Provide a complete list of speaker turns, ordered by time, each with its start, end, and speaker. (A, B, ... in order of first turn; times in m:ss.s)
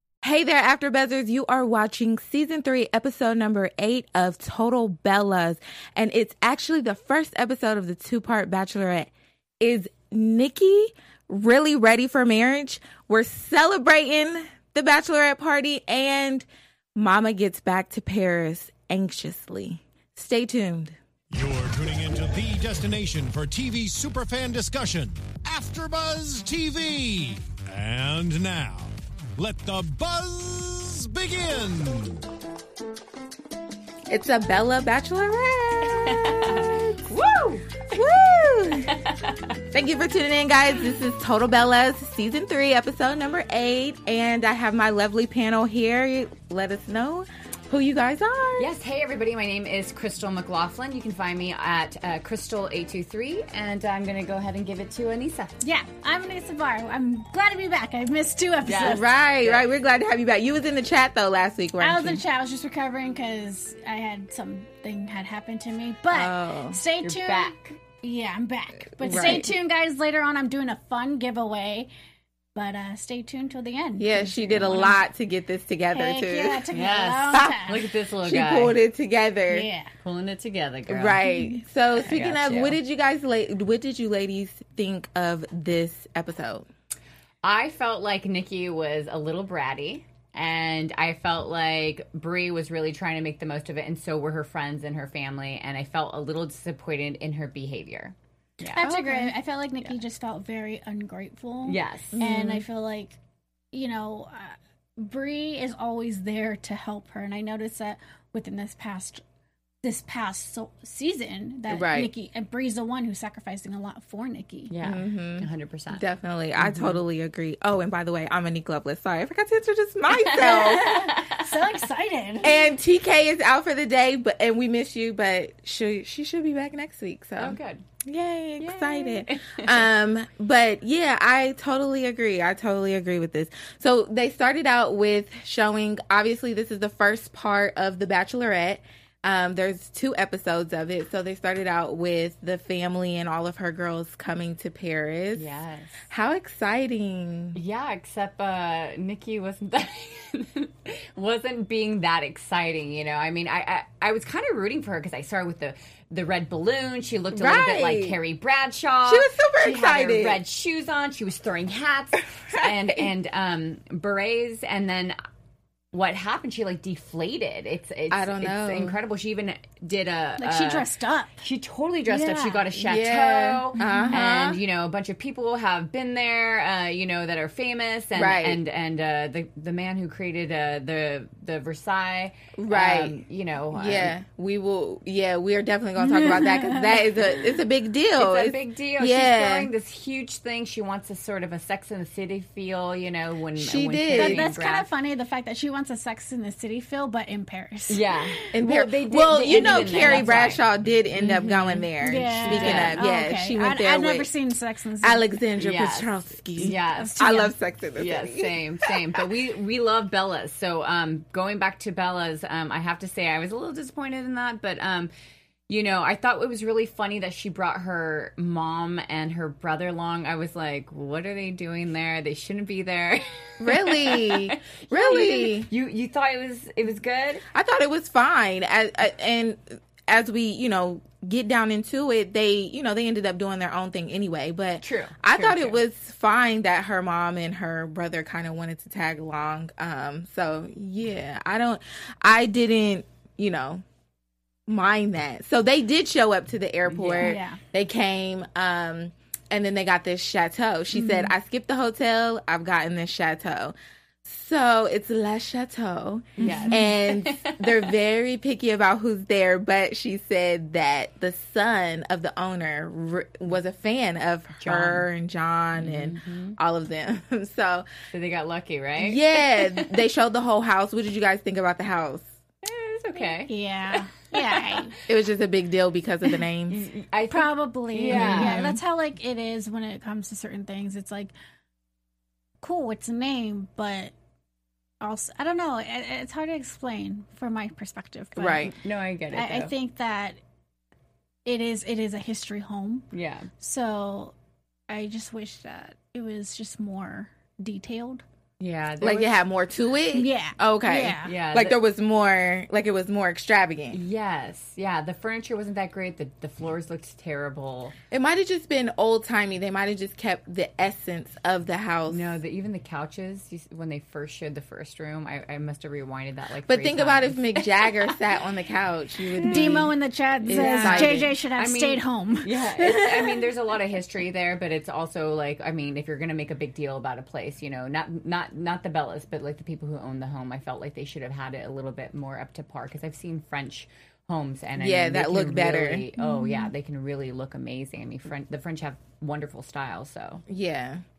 0:00.2-0:21.0 A
0:21.3-0:32.2 B
0:34.1-0:37.2 A
0:35.9-0:37.9 C
0:37.9-0:39.0 A
0:38.9-0:39.6 C
0:39.7-0:48.7 A
0:48.6-0:55.5 C
0:55.6-0:59.0 D
0:58.6-0:59.6 C
0:58.8-1:02.2 A
1:01.8-1:11.9 D
1:06.1-1:06.8 A
1:07.0-1:07.8 C
1:09.0-1:09.5 A
1:09.0-1:09.5 C
1:12.5-1:15.0 D
1:14.0-1:16.6 A
1:15.9-1:17.8 D
1:16.7-1:18.8 C
1:17.3-1:17.6 A
1:18.2-1:19.7 A
1:19.5-1:19.9 D
1:20.0-1:21.2 C
1:20.9-1:26.7 A
1:21.3-1:21.6 D
1:22.0-1:22.8 C
1:27.4-1:38.9 C
1:38.7-1:43.2 D
1:38.8-1:39.3 A
1:41.6-1:42.2 C
1:42.1-1:42.6 A
1:43.7-1:49.2 D
1:49.8-1:54.7 D
1:51.7-1:52.1 A
1:54.7-1:56.0 C
1:54.8-2:01.0 A
1:56.6-1:57.0 C
2:00.3-2:01.5 C
2:00.3-2:02.7 D
2:02.4-2:25.5 A
2:07.4-2:07.8 C
2:08.6-2:09.9 C
2:25.3-2:26.0 C
2:26.1-2:27.6 A
2:27.5-2:45.2 C
2:37.3-2:38.2 A
2:39.0-2:40.4 A
2:42.4-2:43.0 A
2:45.9-2:50.9 C
2:48.1-2:49.0 A
2:50.4-2:51.4 D
2:51.4-3:04.1 C
2:52.1-2:52.6 D
2:52.7-2:54.6 A
2:53.8-2:54.1 D
2:58.1-2:58.6 A
3:02.6-3:03.2 A
3:03.7-3:09.7 A
3:06.0-3:07.0 D
3:08.2-3:14.9 C
3:13.6-3:14.5 A
3:14.1-3:18.5 D
3:17.9-3:23.0 C
3:18.5-3:24.3 A
3:19.4-3:20.4 D
3:22.0-3:25.3 D
3:25.0-3:29.2 A
3:25.6-3:27.3 C
3:26.6-3:27.5 D
3:28.0-3:35.1 C
3:35.7-3:47.4 C
3:43.6-3:45.7 A
3:47.5-4:03.8 A
3:54.8-3:55.8 C
4:04.7-4:27.9 A
4:06.9-4:07.4 C
4:07.2-4:07.6 D
4:16.4-4:17.9 C
4:16.4-4:16.9 D
4:24.6-4:25.1 C
4:25.7-4:26.6 C
4:28.1-4:30.0 C
4:29.0-4:32.3 A
4:32.6-4:34.8 C
4:33.5-4:34.9 D
4:35.1-4:36.8 A
4:36.7-4:38.8 C
4:37.3-4:41.3 D
4:38.1-4:38.8 A
4:42.6-4:44.1 D
4:45.0-4:48.7 D
4:48.4-4:48.7 A
4:48.4-4:49.7 C
4:49.3-4:50.4 D
4:51.4-4:54.3 D
4:53.1-4:53.5 C
4:54.9-4:58.2 D
4:58.6-4:59.4 C
4:59.0-5:04.0 A
5:00.1-5:01.3 D
5:01.2-5:01.8 C
5:03.9-5:07.9 C
5:08.1-5:12.4 A
5:12.1-5:18.2 C
5:16.7-5:21.3 A
5:19.3-5:19.9 C
5:19.4-5:23.2 D
5:20.5-5:40.4 C
5:34.8-5:36.0 A
5:36.2-5:36.7 D
5:40.5-5:41.0 A